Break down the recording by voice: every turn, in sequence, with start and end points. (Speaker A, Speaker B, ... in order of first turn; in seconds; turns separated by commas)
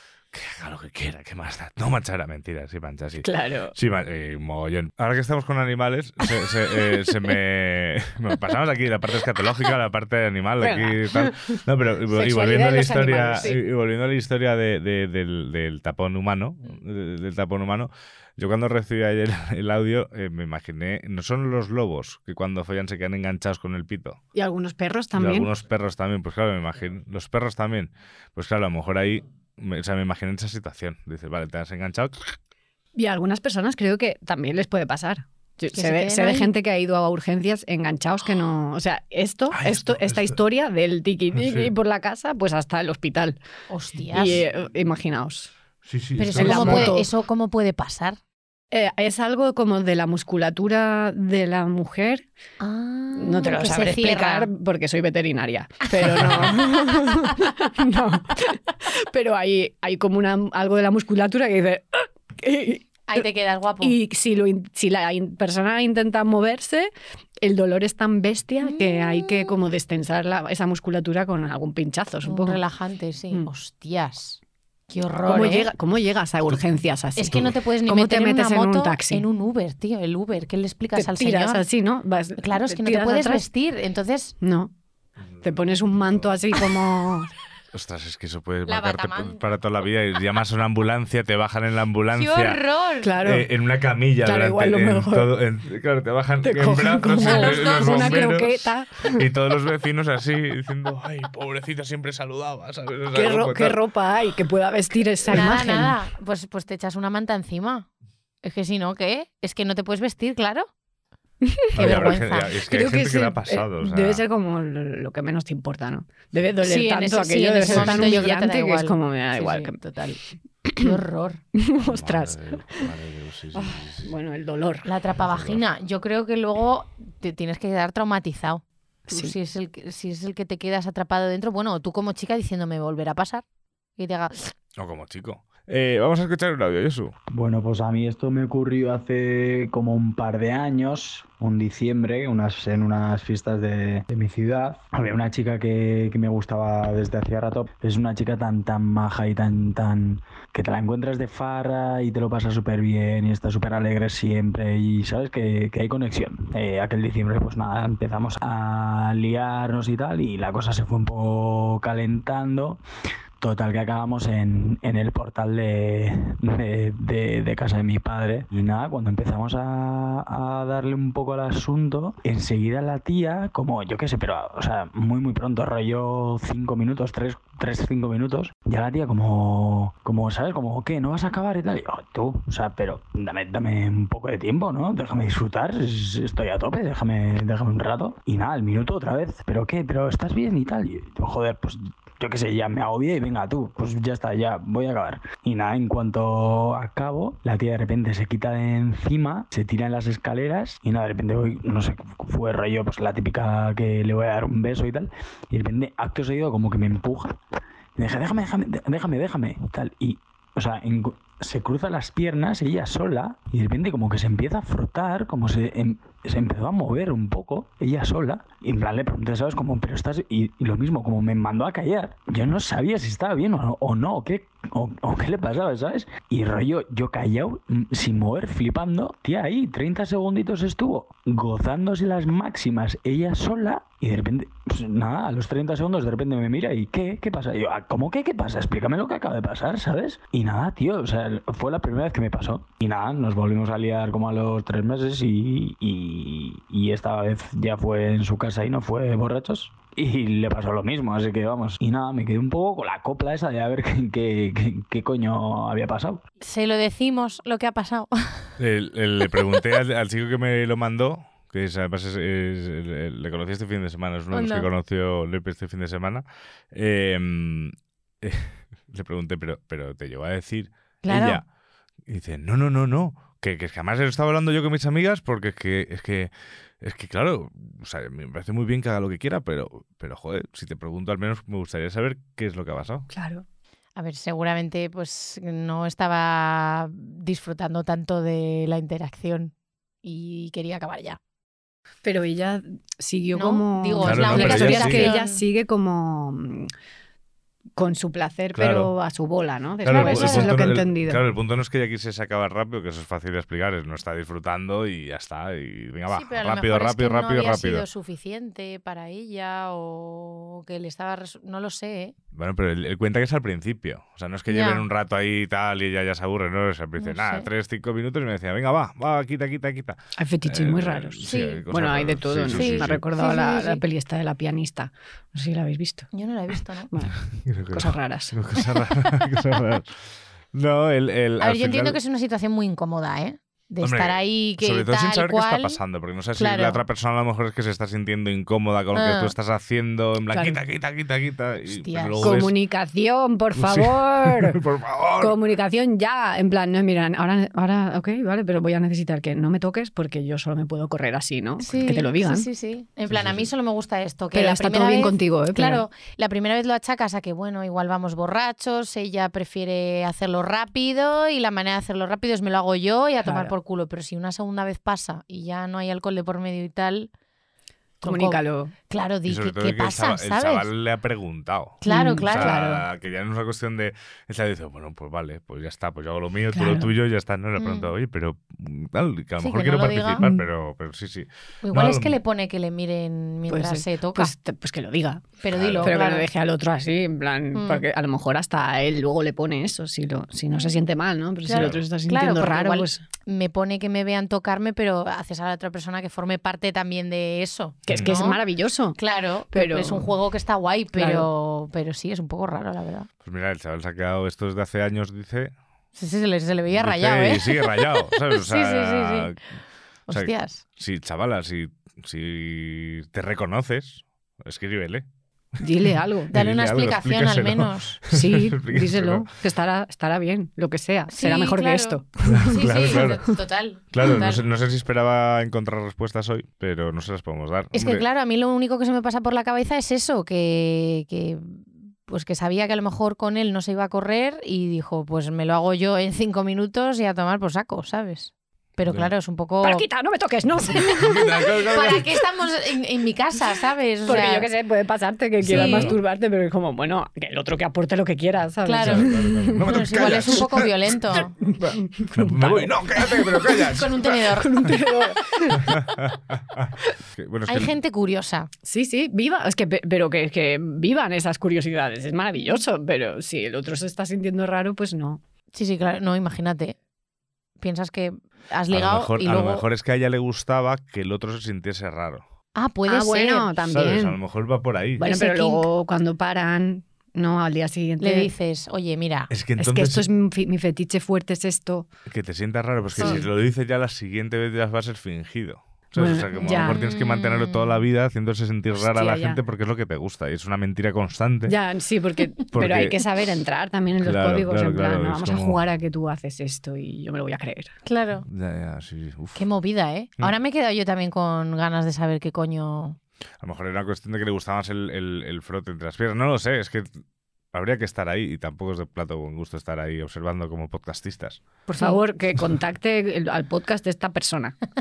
Speaker A: 0.3-24.2, Speaker B: 3.2-3.7, Speaker B: 10.6-11.3, Speaker B: 12.1-13.6, Speaker B: 24.3-25.5, Speaker A: 25.1-32.1, Speaker B: 33.0-43.4, Speaker C: 35.7-36.5, Speaker A: 39.5-40.4, Speaker A: 41.4-41.7, Speaker C: 43.7-44.4, Speaker B: 44.1-45.5, Speaker A: 45.8-46.9, Speaker C: 46.2-48.2, Speaker B: 46.4-47.1, Speaker B: 48.7-52.3, Speaker C: 52.6-54.5, Speaker B: 53.2-63.2, Speaker C: 56.0-57.3, Speaker C: 63.1-63.9, Speaker B: 63.8-72.6, Speaker C: 68.6-69.5, Speaker C: 72.2-75.7, Speaker A: 75.2-75.6, Speaker B: 75.3-79.2, Speaker C: 77.2-81.7, Speaker B: 80.9-83.4, Speaker C: 82.4-84.3, Speaker B: 84.4-84.7, Speaker B: 85.4-87.3, Speaker A: 86.0-86.3, Speaker A: 87.7-92.6, Speaker C: 88.7-89.4, Speaker C: 92.1-93.1, Speaker B: 93.0-93.5, Speaker A: 93.2-103.8, Speaker B: 94.2-95.3, Speaker B: 96.4-99.2, Speaker C: 97.2-98.3, Speaker B: 103.1-105.9, Speaker C: 105.3-107.8, Speaker C: 108.4-110.7, Speaker B: 111.5-112.1, Speaker C: 111.7-112.5, Speaker A: 111.7-114.2, Speaker B: 112.7-119.8, Speaker C: 116.6-120.2, Speaker A: 117.7-118.2, Speaker C: 120.8-121.4, Speaker B: 121.6-122.8, Speaker A: 121.8-124.1, Speaker B: 123.5-124.9, Speaker C: 124.8-133.4, Speaker A: 125.2-125.6, Speaker B: 129.1-129.3, Speaker C: 134.0-134.5, Speaker A: 134.8-137.1, Speaker D: 137.3-162.8, Speaker D: 163.4-207.4, Speaker D: 207.9-256.2, Speaker C: 256.4-258.5, Speaker A: 258.6-271.4, Speaker C: 264.3-264.7, Speaker C: 271.0-271.4, Speaker A: 272.1-276.3, Speaker A: 276.8-283.1, Speaker B: 283.1-283.4, Speaker C: 283.9-289.5, Speaker C: 290.0-291.2, Speaker B: 292.0-296.7, Speaker C: 293.3-295.4, Speaker A: 294.0-295.1, Speaker B: 297.8-301.2, Speaker A: 298.5-298.9, Speaker A: 299.8-307.9, Speaker C: 299.8-300.6, Speaker C: 306.1-312.1, Speaker A: 312.3-323.0, Speaker C: 314.5-314.8, Speaker C: 317.0-317.5, Speaker B: 320.2-326.1, Speaker C: 321.3-321.6, Speaker C: 322.5-323.8, Speaker C: 326.1-326.9, Speaker B: 326.9-327.2, Speaker A: 327.5-330.0, Speaker B: 327.7-328.4, Speaker A: 330.5-332.0, Speaker C: 331.4-335.8, Speaker A: 333.8-342.5, Speaker C: 336.4-336.8, Speaker C: 338.9-339.3, Speaker B: 340.3-340.6, Speaker C: 341.7-342.4, Speaker B: 342.2-344.6, Speaker A: 343.6-345.4, Speaker B: 345.2-352.4, Speaker C: 351.6-367.1, Speaker A: 353.1-353.5, Speaker B: 354.3-355.8, Speaker B: 363.2-363.5, Speaker C: 368.0-370.7, Speaker B: 368.0-368.7, Speaker A: 369.3-382.2, Speaker C: 371.8-372.6, Speaker B: 371.9-372.8, Speaker B: 376.5-376.9, Speaker C: 377.6-377.9, Speaker C: 379.4-380.2, Speaker B: 380.2-380.4, Speaker C: 381.6-384.3, Speaker B: 383.5-385.2, Speaker C: 385.4-386.2, Speaker A: 385.5-385.9, Speaker B: 385.8-393.0, Speaker C: 387.5-387.8, Speaker C: 391.4-398.4, Speaker A: 391.5-391.8, Speaker B: 397.9-399.0, Speaker A: 397.9-398.2, Speaker C: 398.9-403.1, Speaker B: 399.5-400.1, Speaker B: 400.9-401.3, Speaker A: 403.2-405.5, Speaker C: 405.9-409.3, Speaker A: 406.8-409.4, Speaker C: 410.1-410.6, Speaker A: 410.1-415.0, Speaker B: 415.6-416.3, Speaker A: 416.3-419.3, Speaker C: 416.3-418.0, Speaker B: 418.1-423.1, Speaker C: 421.1-424.4, Speaker A: 422.3-423.3, Speaker A: 423.9-428.0, Speaker C: 427.7-439.8, Speaker A: 438.9-439.1, Speaker B: 439.6-442.0, Speaker A: 441.0-442.0, Speaker C: 441.7-444.5, Speaker B: 444.1-450.4, Speaker A: 445.4-446.0, Speaker C: 445.4-445.9, Speaker C: 448.6-451.3, Speaker A: 448.8-454.2, Speaker B: 451.5-453.8, Speaker C: 453.7-454.7, Speaker B: 454.3-455.9, Speaker A: 456.5-457.7, Speaker C: 457.5-458.5, Speaker B: 458.6-465.2, Speaker C: 465.5-466.8, Speaker C: 467.6-469.6, Speaker A: 468.7-472.2, Speaker C: 472.5-473.6, Speaker B: 472.9-474.2, Speaker A: 473.6-475.1, Speaker B: 475.0-478.3, Speaker C: 475.1-475.7, Speaker C: 478.0-479.3, Speaker A: 479.3-480.1, Speaker B: 479.6-481.9, Speaker A: 482.1-491.6, Speaker B: 483.0-483.3, Speaker C: 483.0-483.2, Speaker B: 485.9-486.8, Speaker C: 486.4-487.8, Speaker B: 488.8-489.4, Speaker B: 491.5-497.7, Speaker A: 492.5-493.0, Speaker A: 494.0-495.6, Speaker C: 497.9-498.2, Speaker A: 498.3-499.4, Speaker C: 499.4-503.0, Speaker A: 503.4-506.9, Speaker A: 507.5-511.4, Speaker B: 511.7-514.5